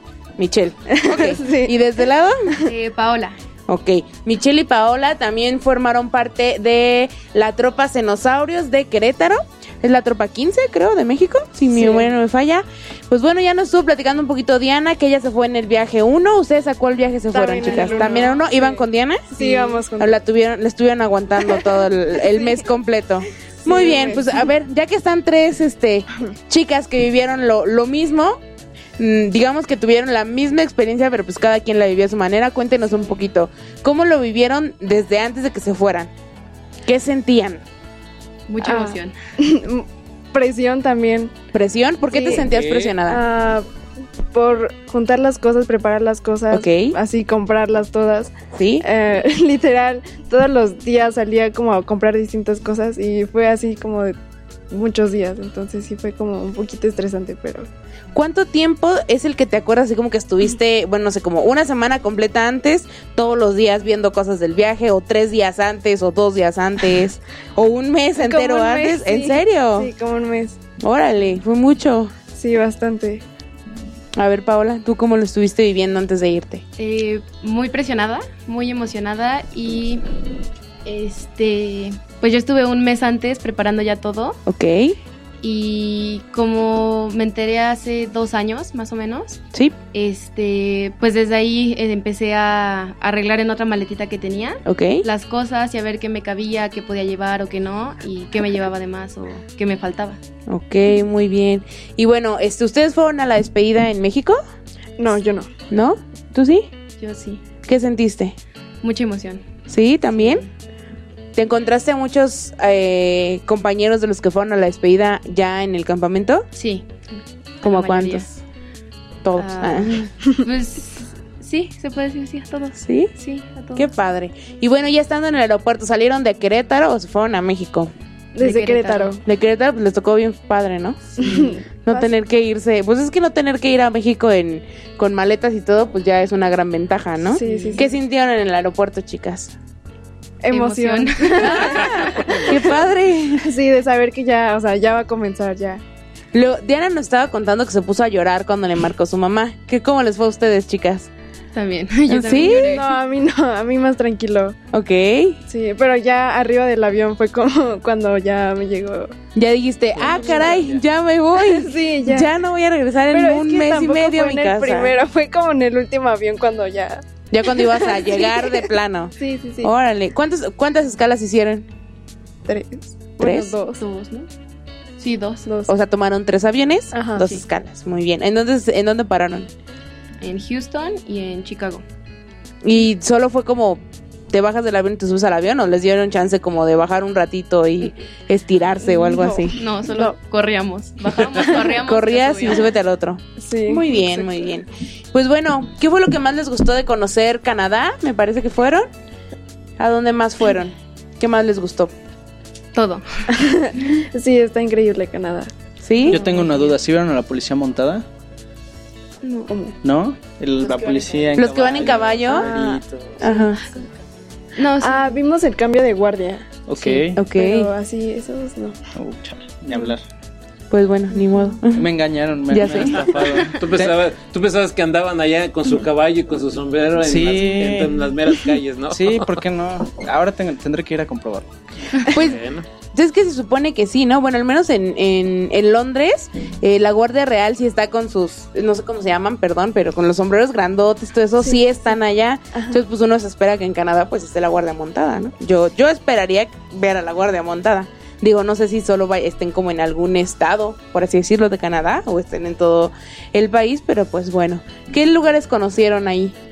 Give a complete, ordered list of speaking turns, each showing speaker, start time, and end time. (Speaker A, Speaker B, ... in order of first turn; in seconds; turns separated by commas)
Speaker A: 0.4-2.4, Speaker B: 1.0-1.8, Speaker C: 2.6-3.4, Speaker A: 3.7-28.4, Speaker B: 11.7-12.1, Speaker B: 17.3-20.2, Speaker C: 17.8-18.1, Speaker B: 21.5-22.6, Speaker B: 23.6-24.5, Speaker A: 29.0-36.1, Speaker A: 36.9-37.6, Speaker C: 38.5-39.1, Speaker B: 38.6-41.3, Speaker A: 41.5-43.2, Speaker B: 42.1-42.4, Speaker D: 42.5-43.0, Speaker B: 43.1-43.7, Speaker B: 44.3-54.2, Speaker A: 46.5-47.0, Speaker A: 48.5-48.9, Speaker B: 54.7-57.7, Speaker A: 58.1-69.9, Speaker B: 68.2-70.6, Speaker A: 70.8-72.1, Speaker B: 72.3-73.2, Speaker A: 74.2-76.6, Speaker C: 76.8-80.0, Speaker C: 80.8-84.4, Speaker A: 84.5-85.0, Speaker C: 85.4-89.4, Speaker C: 89.9-100.2, Speaker A: 94.7-95.0, Speaker A: 100.5-104.4, Speaker B: 105.0-105.5, Speaker A: 105.7-106.7, Speaker C: 107.0-107.4, Speaker A: 107.7-108.4, Speaker C: 108.8-109.4, Speaker A: 109.7-110.5, Speaker A: 111.3-116.5, Speaker C: 116.5-118.3, Speaker A: 117.6-118.3, Speaker A: 119.2-120.1, Speaker C: 119.3-123.9, Speaker A: 122.8-123.1, Speaker A: 123.8-127.9, Speaker C: 128.3-129.1, Speaker B: 128.4-129.2, Speaker A: 129.2-139.6, Speaker B: 131.2-131.6, Speaker B: 137.3-137.9, Speaker C: 137.4-137.9, Speaker B: 140.4-142.6, Speaker C: 140.5-142.6, Speaker A: 142.4-143.5, Speaker B: 143.4-145.8, Speaker A: 146.3-151.1, Speaker C: 151.5-152.9, Speaker A: 152.1-152.8, Speaker B: 152.6-154.6, Speaker A: 154.7-155.4, Speaker B: 155.5-159.1, Speaker A: 159.3-165.0, Speaker E: 160.0-160.8, Speaker B: 160.0-160.6, Speaker B: 161.4-162.3, Speaker B: 163.1-168.6, Speaker A: 167.3-171.7, Speaker B: 169.2-169.7, Speaker B: 172.5-173.8, Speaker A: 173.2-173.5, Speaker C: 173.8-174.3, Speaker C: 175.0-175.4, Speaker B: 175.5-175.7, Speaker A: 175.7-179.5, Speaker B: 176.9-177.3, Speaker C: 180.2-181.8, Speaker A: 182.6-189.6, Speaker B: 188.8-190.2, Speaker C: 189.6-192.7, Speaker A: 191.7-198.9, Speaker B: 193.4-194.5, Speaker A: 199.8-201.9, Speaker C: 202.8-203.3, Speaker B: 203.3-205.5, Speaker A: 205.8-206.2, Speaker E: 206.1-208.1, Speaker C: 209.2-209.5, Speaker B: 209.5-209.8, Speaker E: 209.8-213.2, Speaker A: 211.3-212.5, Speaker B: 212.3-213.6, Speaker A: 213.2-213.6, Speaker C: 214.6-215.1, Speaker B: 214.8-218.8, Speaker E: 216.7-217.2, Speaker A: 217.2-217.7, Speaker E: 218.9-220.0, Speaker A: 220.7-221.9, Speaker E: 221.8-223.9, Speaker A: 222.5-223.0, Speaker D: 222.9-229.4, Speaker E: 227.0-228.0, Speaker E: 228.9-232.1, Speaker A: 232.1-232.4, Speaker D: 232.1-232.7, Speaker A: 232.9-256.4